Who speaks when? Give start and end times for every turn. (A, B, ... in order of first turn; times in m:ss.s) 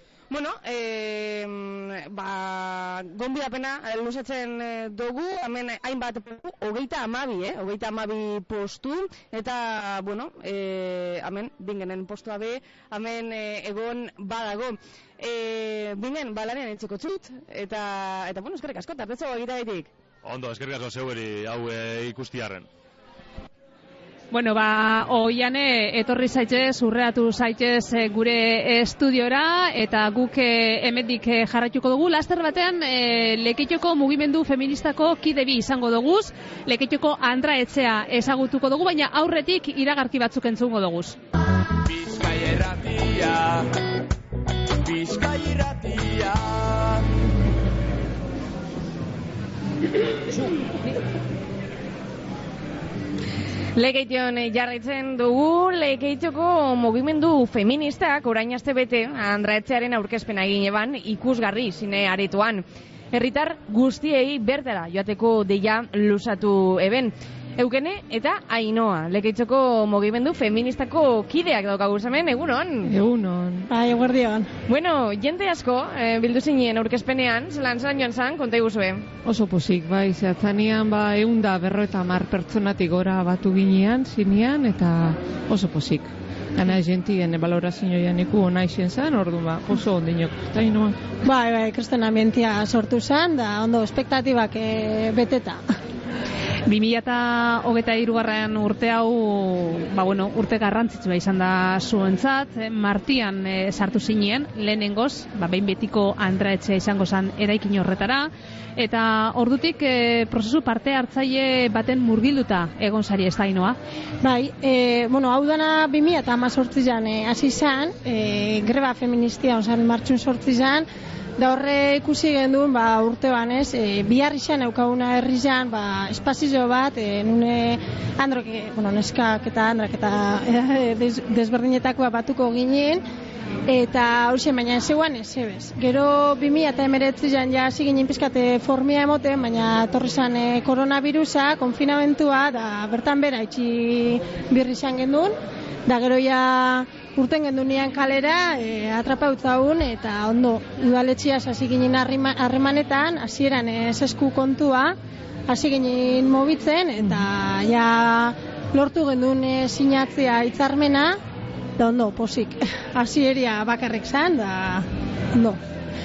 0:00.3-0:19.9 A
0:20.2-0:22.7 B
0:24.3-0:41.2 C
0:41.8-0:43.7 D
0:44.8-0:47.0 D
0:53.8-1:12.9 A
1:12.9-1:13.7 E
1:13.7-1:14.5 F
1:14.7-1:19.1 A
1:19.2-1:31.1 E
1:31.2-1:35.6 F
1:36.7-1:53.8 C
1:54.2-2:00.9 F
2:01.4-2:13.0 F
2:13.7-2:25.3 F
2:25.9-2:35.0 F
2:35.5-2:41.2 F
2:41.8-2:45.6 F